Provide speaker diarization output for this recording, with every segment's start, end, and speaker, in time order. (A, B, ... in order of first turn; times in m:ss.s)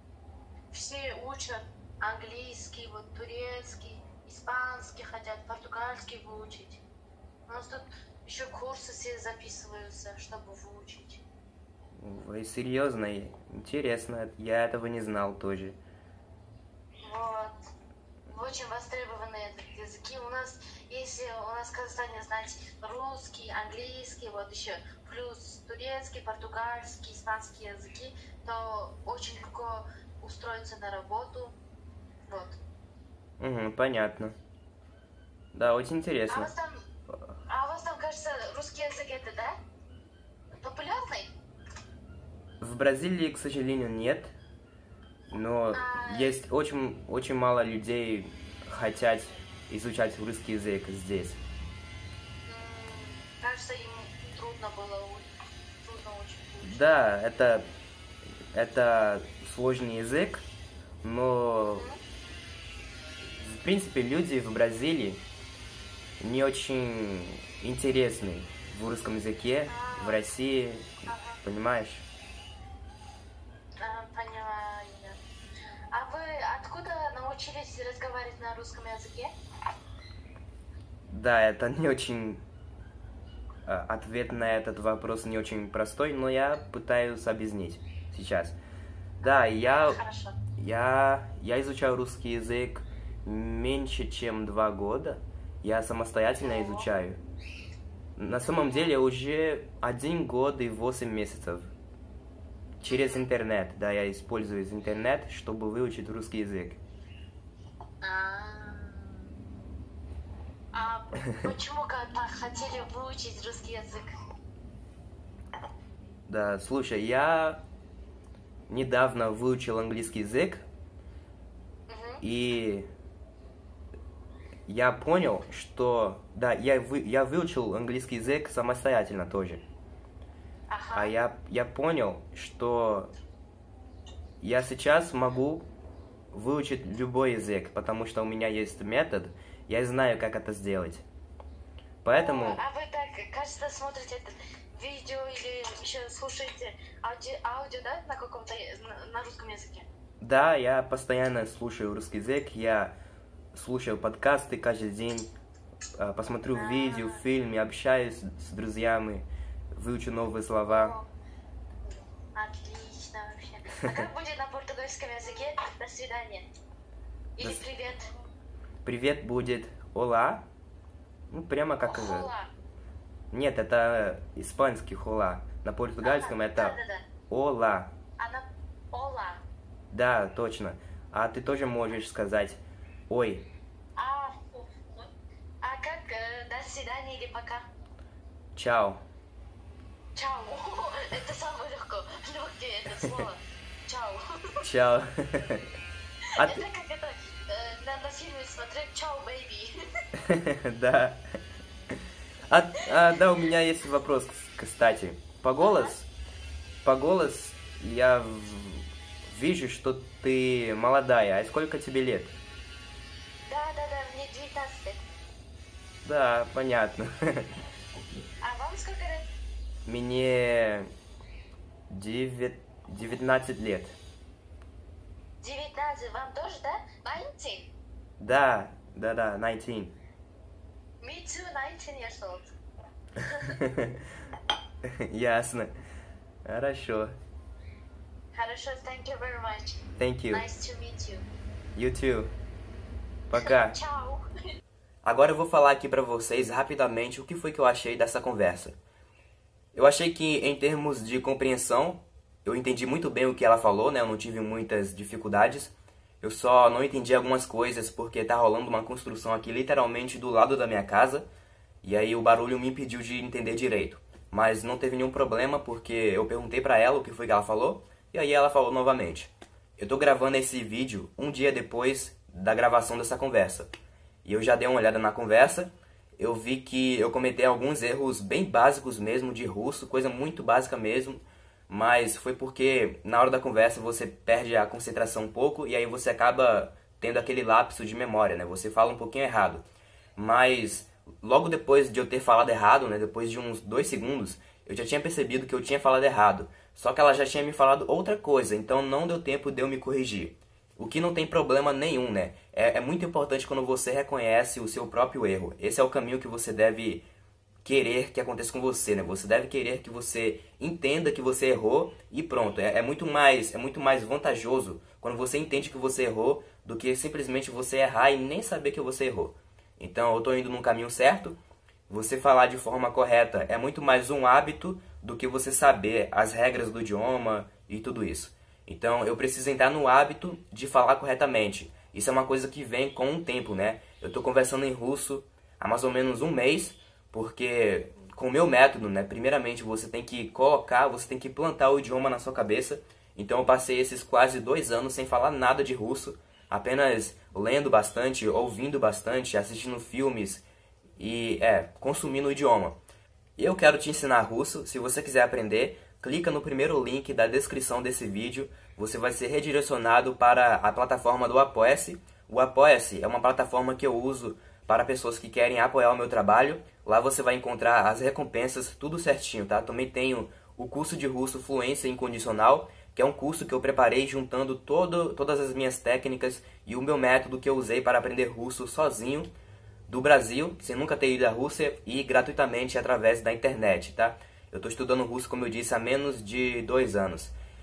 0:00.7-0:06.8 A
0:07.5-0:11.2 A
0:12.0-0:15.8 B
0:17.0-0:17.5 A
0:18.3-0:31.6 A
0:32.3-0:32.6 A
0:33.4-0:34.3 B
0:35.5-0:36.5 B
0:36.3-0:36.8 A
0:37.5-0:39.6 A
0:40.6-0:41.3 A
0:42.6-0:44.3 B
0:45.3-0:51.4 B
0:45.7-0:46.4 A
0:52.5-0:55.3 A
0:55.8-0:56.9 A
0:56.6-0:57.7 B
0:58.5-1:00.4 B
1:01.0-1:01.9 B
1:01.7-1:02.0 A
1:03.3-1:05.2 B
1:06.2-1:12.0 B
1:09.7-1:10.3 A
1:11.1-1:11.4 A
1:13.8-1:15.2 A
1:15.9-1:19.3 A
1:21.1-1:22.4 B
1:23.6-1:28.6 B
1:29.2-1:30.0 B
1:29.2-1:30.4 A
1:30.6-1:37.2 B
1:36.4-1:36.9 A
1:38.2-1:41.7 B
1:38.4-1:38.9 A
1:42.8-1:46.8 B
1:42.9-1:43.3 A
1:48.0-1:49.1 A
1:50.7-1:54.1 A
1:56.3-1:57.6 B
1:58.7-2:00.6 B
2:01.9-2:02.2 A
2:02.2-2:02.9 B
2:04.7-2:09.6 B
2:10.7-2:11.1 A
2:10.9-2:13.1 B
2:14.4-2:15.7 B
2:16.3-2:21.0 B
2:22.0-2:22.6 B
2:22.2-2:29.9 A
2:30.2-2:33.0 B
2:33.5-2:35.3 B
2:36.0-2:41.0 B
2:36.5-2:37.2 A
2:40.7-2:41.1 A
2:42.4-2:46.5 A
2:47.4-2:48.1 A
2:48.8-2:50.5 B
2:51.3-2:52.3 B
2:51.8-2:52.5 A
2:53.3-2:56.8 B
2:56.0-2:57.1 A
2:57.3-2:58.0 B
2:58.2-2:59.4 A
2:59.9-3:03.5 B
3:04.0-3:05.0 A
3:05.6-3:07.7 A
3:08.6-3:09.0 B
3:10.2-3:14.6 A
3:14.6-3:15.6 B
3:16.4-3:16.6 B
3:16.4-3:19.8 A
3:20.2-3:21.2 B
3:22.5-3:26.1 B
3:25.6-3:25.9 A
3:26.8-3:32.4 B
3:33.5-3:35.0 A
3:36.0-3:37.5 B
3:38.4-3:39.3 A
3:39.9-3:40.9 B
3:41.9-3:43.9 B
3:45.4-3:47.7 A
3:48.2-3:50.0 B
3:51.0-3:52.6 A
3:53.2-3:53.5 A
3:53.5-3:54.0 B
3:54.8-3:55.7 B
3:56.5-3:57.2 B
3:58.3-4:01.3 A
4:00.0-4:00.4 B
4:01.8-4:02.3 B
4:03.3-4:03.8 B
4:03.3-4:04.2 A
4:05.0-4:08.8 B
4:09.7-4:21.3 B
4:21.8-4:33.7 B
4:34.2-4:49.6 B
4:50.2-5:07.0 B
5:07.6-5:21.4 B
5:21.9-5:50.4 B
5:51.0-5:52.8 B
5:53.4-6:19.3 B
6:19.9-6:27.3 B